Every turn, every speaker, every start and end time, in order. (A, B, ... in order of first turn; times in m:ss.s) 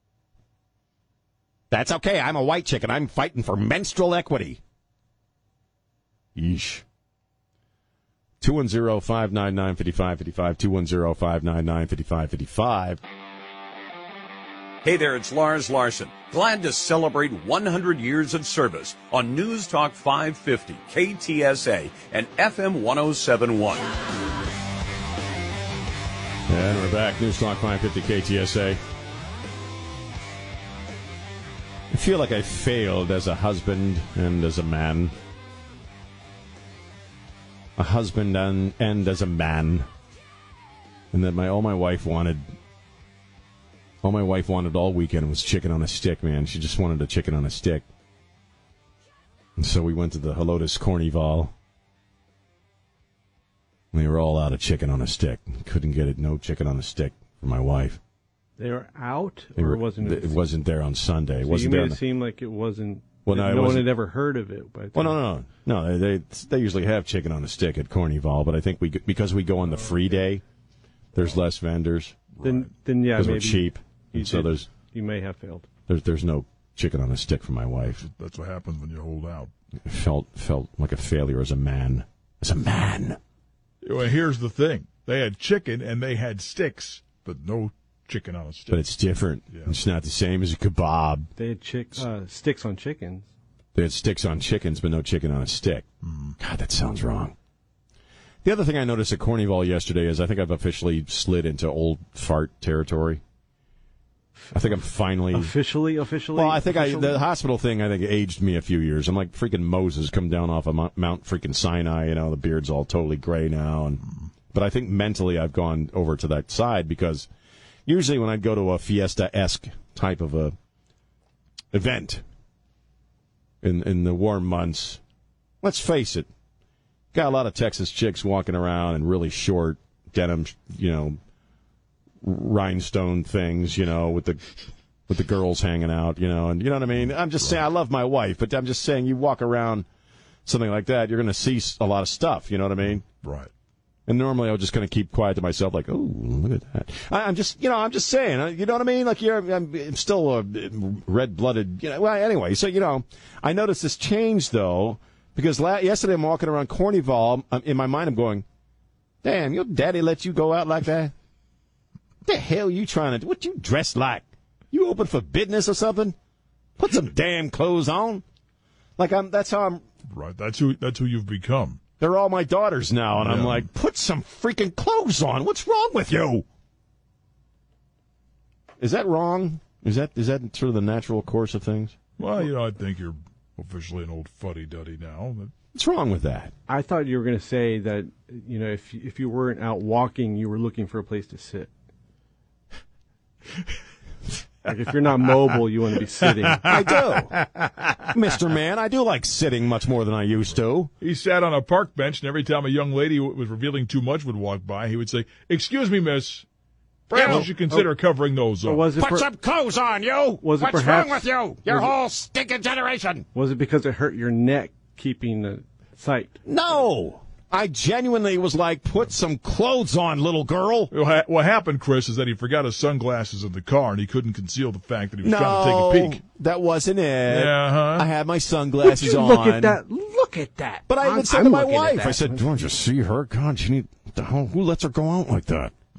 0:01.7-0:04.6 A
0:06.4-0:06.8 A
0:08.4-0:13.0 A
0:14.8-0:23.9 B
0:26.5-0:28.8 A
0:31.9-0:35.1 A
0:37.8-0:39.9 A
0:41.1-0:42.5 A
0:44.0-0:47.8 A
0:49.6-0:51.5 A
0:53.9-0:58.0 A
0:58.6-1:00.4 C
0:59.6-1:02.0 A
1:01.4-1:05.2 C
1:03.2-1:03.9 A
1:04.9-1:10.4 A
1:11.1-1:12.2 A
1:12.4-1:12.7 D
1:12.4-1:15.7 C
1:13.1-1:14.7 A
1:15.9-1:18.0 A
1:17.9-1:19.5 D
1:19.8-1:23.2 A
1:23.8-1:28.8 D
1:28.7-1:31.3 A
1:29.5-1:29.8 D
1:31.4-1:33.3 C
1:33.7-1:35.8 A
1:36.0-1:36.4 D
1:36.4-1:37.3 A
1:38.4-1:43.2 A
1:44.5-1:45.5 A
1:45.3-1:47.2 C
1:46.3-1:57.3 A
1:57.8-2:00.5 A
2:01.7-2:02.2 A
2:03.6-2:05.0 A
2:05.6-2:06.3 A
2:07.1-2:11.2 A
2:12.2-2:14.4 A
2:15.1-2:19.8 A
2:17.0-2:17.6 D
2:20.4-2:23.0 A
2:22.9-2:23.5 D
2:24.1-2:38.4 A
2:39.2-2:41.1 A
2:42.2-2:46.2 A
2:46.8-2:48.2 A
2:49.0-2:49.8 A
2:50.1-2:51.8 D
2:52.0-2:56.4 A
2:53.2-2:53.7 D
2:58.8-3:01.9 A
3:02.2-3:05.5 D
3:05.7-3:06.5 A
3:06.7-3:11.7 C
3:14.6-3:16.7 C
3:16.2-3:18.1 D
3:16.6-3:17.3 A
3:18.1-3:20.9 A
3:21.0-3:26.4 D
3:27.1-3:28.9 D
3:27.1-3:27.5 A
3:27.2-3:27.9 C
3:28.6-3:29.3 C
3:29.0-3:33.2 A
3:30.4-3:31.9 C
3:33.3-3:36.4 C
3:36.4-3:40.9 A
3:40.9-3:46.2 D
3:45.2-3:49.8 A
3:47.3-3:48.1 D
3:48.8-3:52.5 C
3:50.9-3:55.7 A